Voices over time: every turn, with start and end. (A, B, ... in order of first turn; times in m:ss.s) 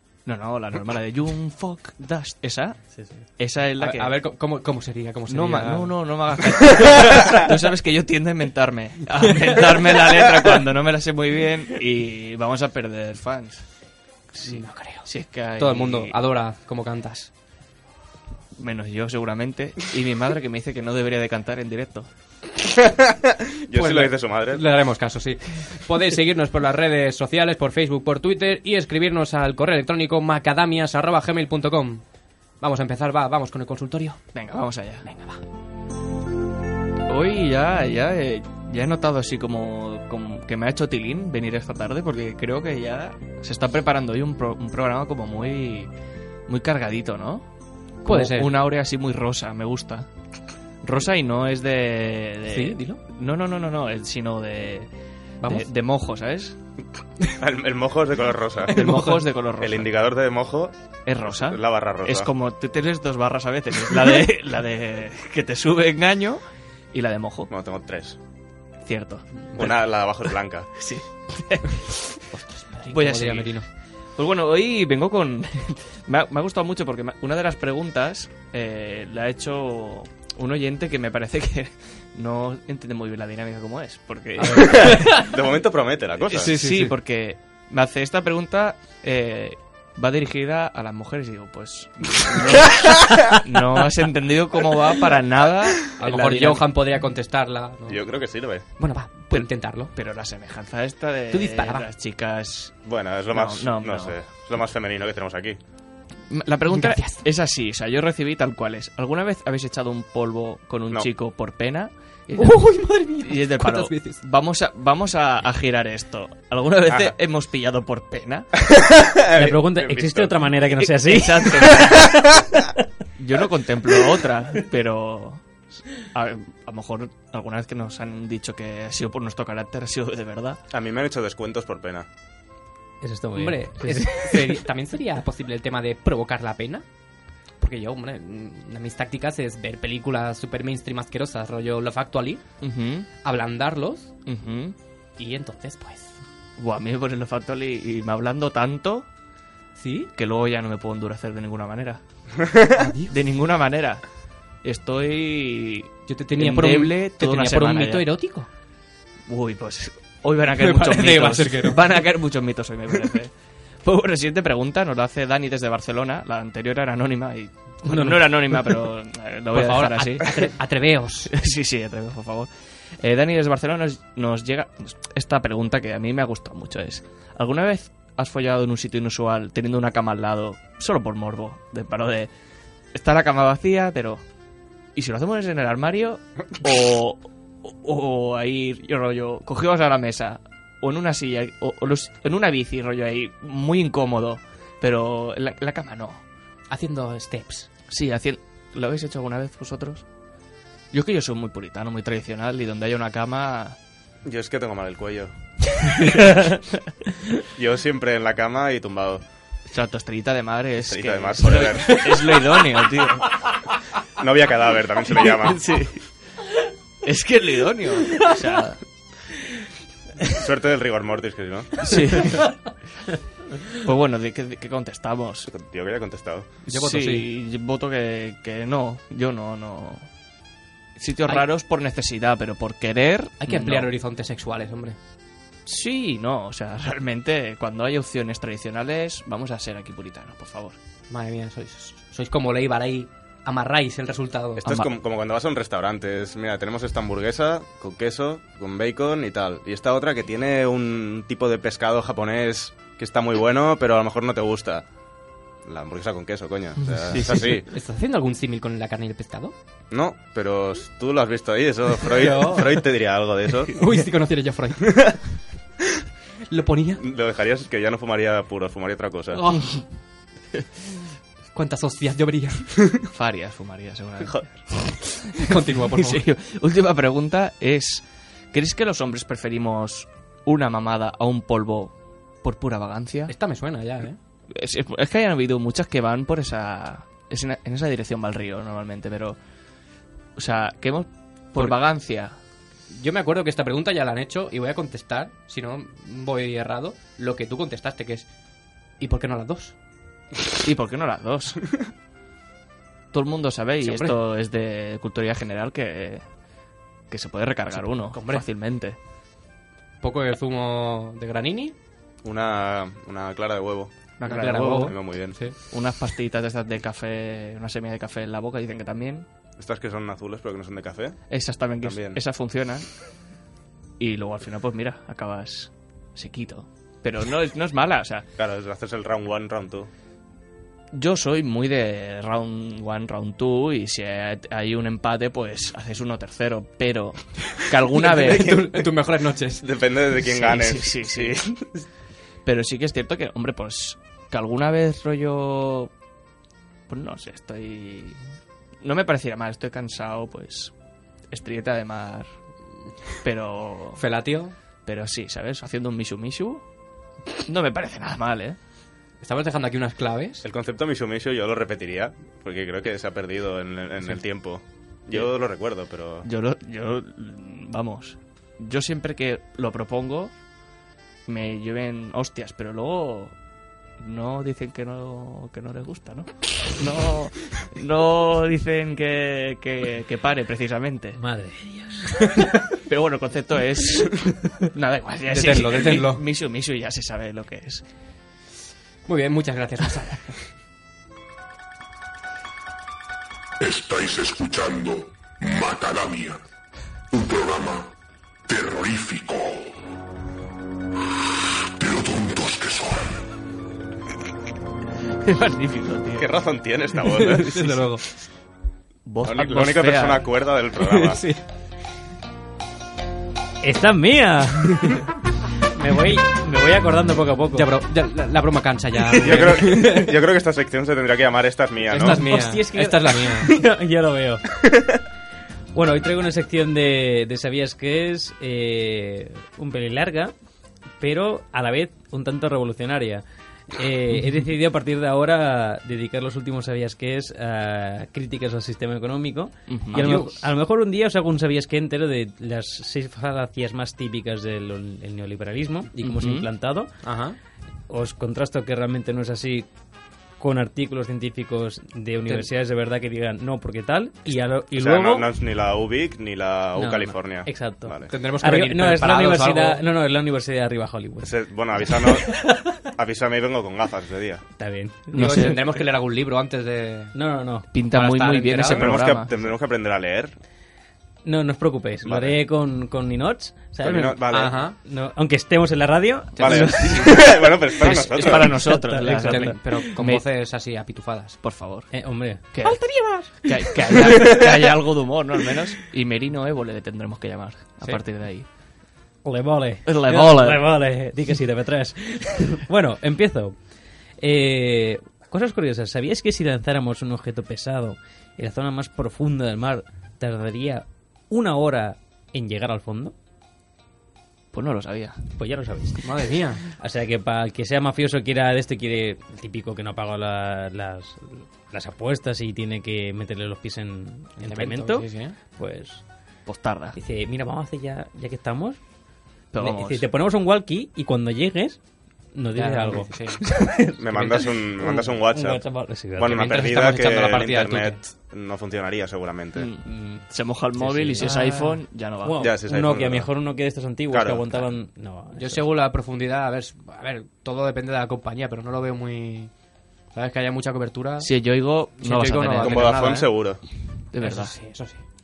0:00.2-0:02.8 A
0:03.0-0:03.2 B
0:03.4-0:04.2 A
0:03.8-0:06.0 C
0:05.3-0:13.6 A
0:14.4-0:16.2 A
0:14.4-0:17.3 C
0:18.6-0:22.1 A
0:23.0-0:24.6 D
0:23.7-0:32.0 C
0:32.6-0:34.2 C
0:34.3-0:35.1 A
0:35.0-0:35.4 C
0:37.1-0:45.9 A
0:46.5-0:47.5 A
0:48.0-0:50.1 A
0:48.0-0:48.5 C
0:50.8-0:54.9 A
0:52.5-0:53.0 C
0:55.4-0:56.6 A
0:57.4-0:58.8 D
0:58.7-0:59.2 C
0:58.7-0:59.9 A
0:59.6-1:02.3 D
1:01.0-1:06.4 A
1:06.9-1:07.5 A
1:07.5-1:08.2 D
1:08.8-1:09.5 A
1:09.6-1:10.7 D
1:10.8-1:12.3 A
1:12.3-1:13.7 C
1:12.8-1:13.6 A
1:14.2-1:25.2 A
1:24.4-1:25.3 C
1:24.8-1:26.5 D
1:26.3-1:36.7 A
1:26.3-1:26.9 C
1:36.0-1:38.0 C
1:37.9-1:38.7 D
1:38.8-1:39.9 C
1:39.3-1:44.2 A
1:41.3-1:41.8 C
1:42.8-1:45.6 D
1:46.3-1:58.5 A
1:46.7-1:47.2 C
1:52.4-1:54.2 C
1:56.9-1:57.1 D
1:58.6-2:00.4 D
1:59.3-2:02.1 B
2:00.8-2:02.1 A
2:03.2-2:05.4 A
2:06.0-2:10.6 A
2:10.7-2:12.0 D
2:13.0-2:14.6 B
2:13.4-2:16.8 C
2:17.6-2:22.4 C
2:22.6-2:23.1 A
2:23.2-2:24.1 C
2:24.3-2:24.7 A
2:25.2-2:26.2 C
2:26.6-2:29.1 A
2:29.8-2:30.1 C
2:30.2-2:32.0 A
2:32.7-2:33.1 C
2:33.1-2:34.0 A
2:34.6-2:38.1 A
2:36.1-2:38.5 C
2:39.3-2:43.3 A
2:40.6-2:41.8 C
2:43.8-2:50.5 A
2:47.9-2:48.3 B
2:49.5-2:51.3 C
2:51.3-2:52.5 A
2:53.0-3:02.3 A
3:02.9-3:04.2 A
3:05.0-3:16.2 A
3:16.7-3:17.7 C
3:17.9-3:20.0 A
3:20.9-3:23.8 A
3:24.2-3:25.3 D
3:27.5-3:29.2 D
3:29.7-3:33.3 A
3:30.8-3:32.4 D
3:34.2-3:35.6 D
3:35.2-3:36.0 A
3:37.0-3:38.8 A
3:40.3-3:41.9 D
3:41.8-3:42.6 A
3:43.8-3:45.5 A
3:45.5-3:46.5 D
3:46.7-3:47.3 C
3:46.7-3:50.0 A
3:51.0-3:53.9 A
3:53.4-3:55.0 C
3:55.6-4:00.8 A
4:01.1-4:04.9 C
4:04.6-4:14.8 D
4:15.6-4:17.7 D
4:17.1-4:19.5 C
4:19.9-4:23.8 D
4:22.0-4:22.9 C
4:23.7-4:25.2 C
4:26.5-4:27.0 C
4:27.0-4:29.4 D
4:29.3-4:29.8 C
4:31.5-4:32.7 C
4:33.1-4:43.3 A
4:35.4-4:36.2 C
4:43.3-4:44.2 C
4:44.5-4:49.4 A
4:50.4-4:52.4 A
4:52.9-4:58.3 C
4:59.0-4:59.7 C
5:00.6-5:01.7 A
5:03.1-5:06.2 A
5:03.8-5:04.2 C
5:07.1-5:09.0 A
5:07.8-5:08.4 C
5:10.0-5:11.7 C
5:12.2-5:13.9 D
5:14.2-5:14.9 A
5:14.2-5:15.5 C
5:14.7-5:15.4 D
5:15.7-5:19.2 A
5:19.6-5:21.2 D
5:21.3-5:22.8 A
5:21.8-5:22.2 D
5:24.0-5:28.3 A
5:28.4-5:29.9 D
5:30.9-5:38.9 A
5:37.9-5:39.6 C
5:39.6-5:41.7 D
5:40.2-5:41.4 A
5:42.4-5:45.9 A
5:46.9-5:48.2 A
5:48.8-5:50.7 A
5:51.3-5:52.3 A
5:53.2-5:54.0 A
5:54.0-5:54.5 C
5:54.8-5:56.6 A
5:57.4-5:58.6 A
5:59.2-6:00.4 C
6:00.4-6:06.3 D
6:06.2-6:10.3 A
6:11.3-6:13.3 A
6:14.0-6:21.2 A
6:21.2-6:22.5 B
6:22.8-6:27.8 A
6:25.3-6:26.2 C
6:29.0-6:30.4 C
6:33.6-6:36.4 E
6:37.1-6:37.9 E
6:38.5-6:39.7 E
6:41.8-6:43.1 E
6:45.2-6:46.3 A
6:46.2-6:47.8 D
6:47.1-6:48.0 C
6:49.0-6:50.3 A
6:49.2-6:51.2 D
6:50.8-6:51.4 C
6:53.6-6:55.0 B
6:55.7-6:57.7 B
6:57.5-7:00.1 C
6:59.2-7:02.2 D
7:01.9-7:03.5 C
7:02.0-7:04.6 B
7:05.7-7:10.3 B
7:11.0-7:26.9 B
7:19.7-7:20.3 A
7:20.0-7:20.3 C
7:26.0-7:26.5 A
7:27.0-7:27.4 C
7:27.9-7:29.6 B
7:30.4-7:35.3 B
7:34.7-7:38.1 D
7:36.8-7:42.7 B
7:38.1-7:39.8 C
7:41.2-7:44.4 D
7:44.6-7:45.6 B
7:45.1-7:47.2 C
7:45.1-7:45.6 A
7:47.1-7:47.7 B
7:47.7-7:49.3 A
7:47.9-7:49.0 C
7:48.7-7:50.3 D
7:51.2-7:56.9 B
7:52.0-7:52.4 D
7:53.8-7:54.7 D
7:54.3-7:54.8 C
7:56.4-8:00.2 A
7:56.4-7:58.6 D
7:57.8-7:59.8 B
7:59.0-8:01.4 C
8:01.4-8:08.5 A
8:01.9-8:02.4 B
8:02.6-8:04.2 C
8:09.2-8:13.6 B
8:09.8-8:10.7 A
8:14.2-8:23.1 B
8:24.5-8:25.2 A
8:25.4-8:26.1 B
8:26.0-8:26.6 C
8:26.7-8:36.0 B
8:34.4-8:35.4 C
8:36.4-8:37.0 A
8:36.9-8:38.8 B
8:39.5-8:40.0 A
8:39.6-8:41.8 B
8:42.3-8:46.6 B
8:42.5-8:43.4 C
8:44.0-8:49.7 D
8:46.3-8:48.0 C
8:49.6-8:52.4 A
8:49.8-8:50.2 B
8:50.8-8:51.4 B
8:51.2-8:51.8 C
8:52.2-8:55.6 B
8:52.4-8:53.3 D
8:54.1-8:54.7 D
8:55.3-8:59.5 C
9:00.1-9:03.4 C
9:01.2-9:03.0 A
9:02.6-9:03.6 D
9:04.1-9:04.5 A
9:04.2-9:05.0 C